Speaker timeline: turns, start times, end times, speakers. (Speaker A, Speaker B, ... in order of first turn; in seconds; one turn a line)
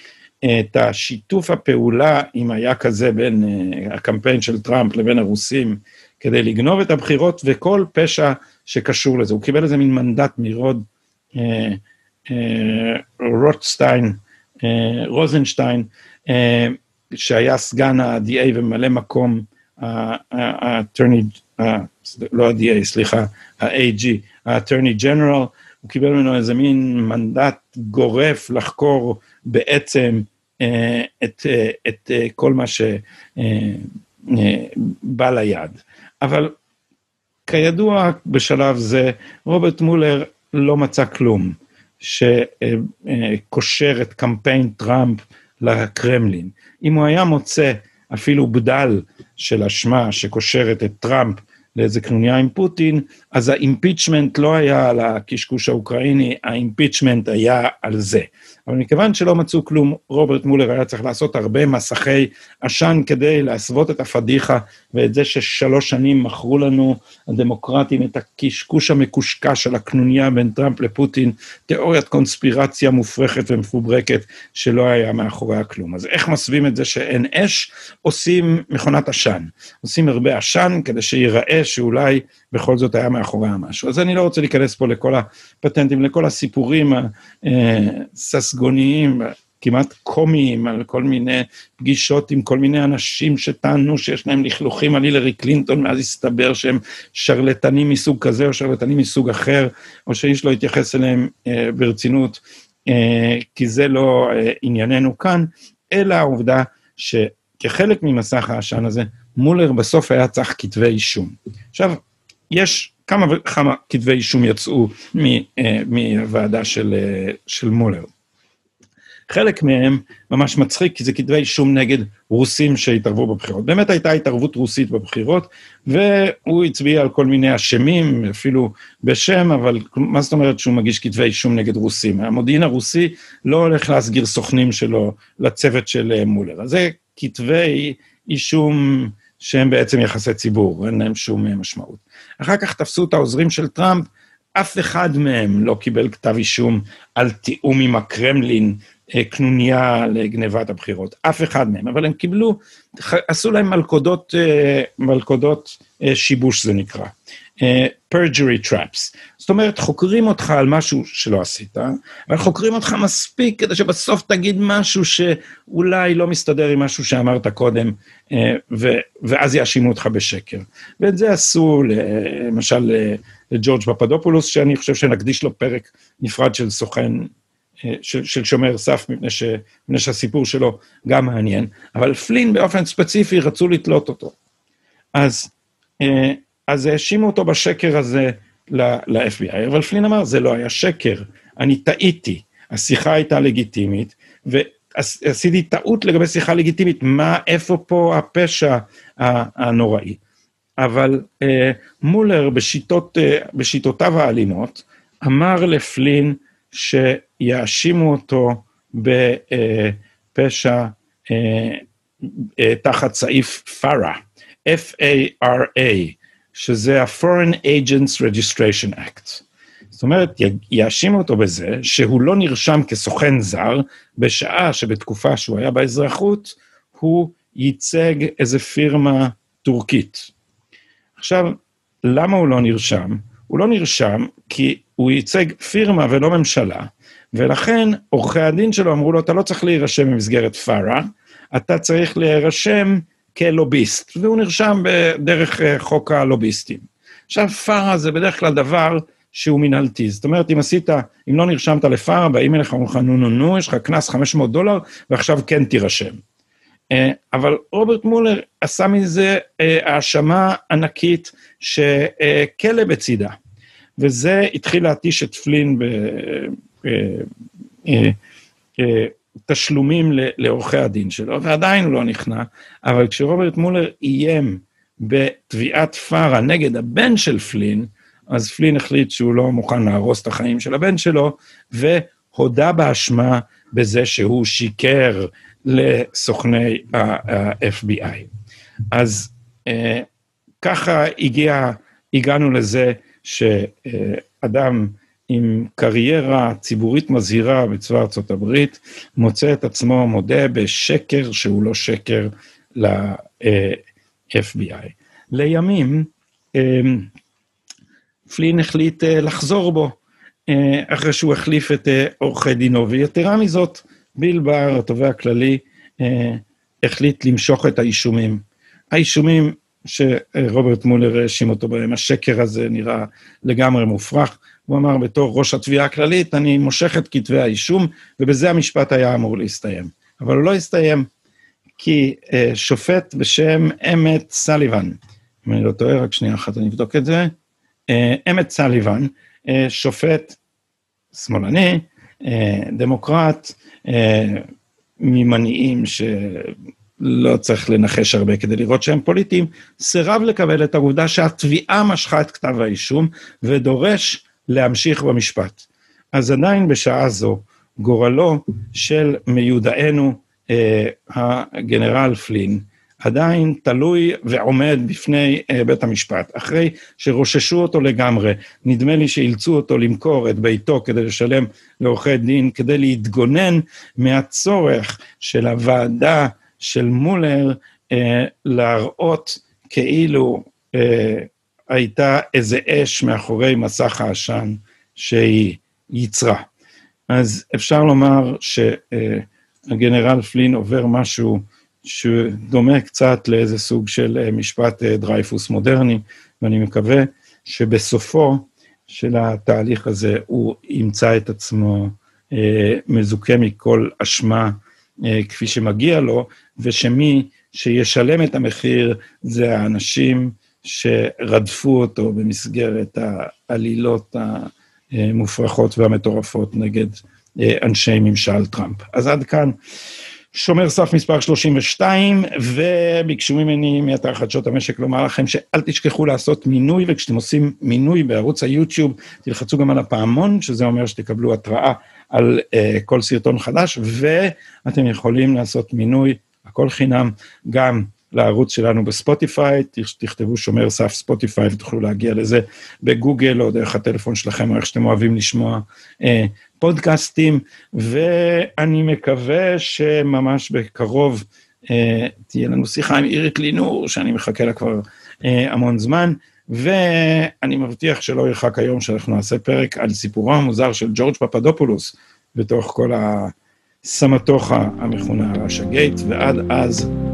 Speaker A: 0.4-36.5
Speaker A: 37.5-112.0
Speaker A: 112.5-118.1
Speaker A: 119.3-177.3
Speaker A: 177.8-184.4
Speaker A: 185.1-200.2
Speaker A: 200.8-230.3
Speaker A: 231.2-256.2
Speaker A: 256.9-263.4
Speaker A: 264.0-267.3
Speaker A: 267.9-268.2
Speaker A: 268.8-288.3
Speaker A: 288.9-290.1
Speaker A: 290.6-307.1
Speaker A: 308.3-331.1
Speaker A: 331.8-337.3
Speaker A: 337.9-340.4
Speaker A: 341.1-344.5
Speaker A: 345.0-386.5
Speaker A: 387.1-419.6
Speaker A: 420.3-466.9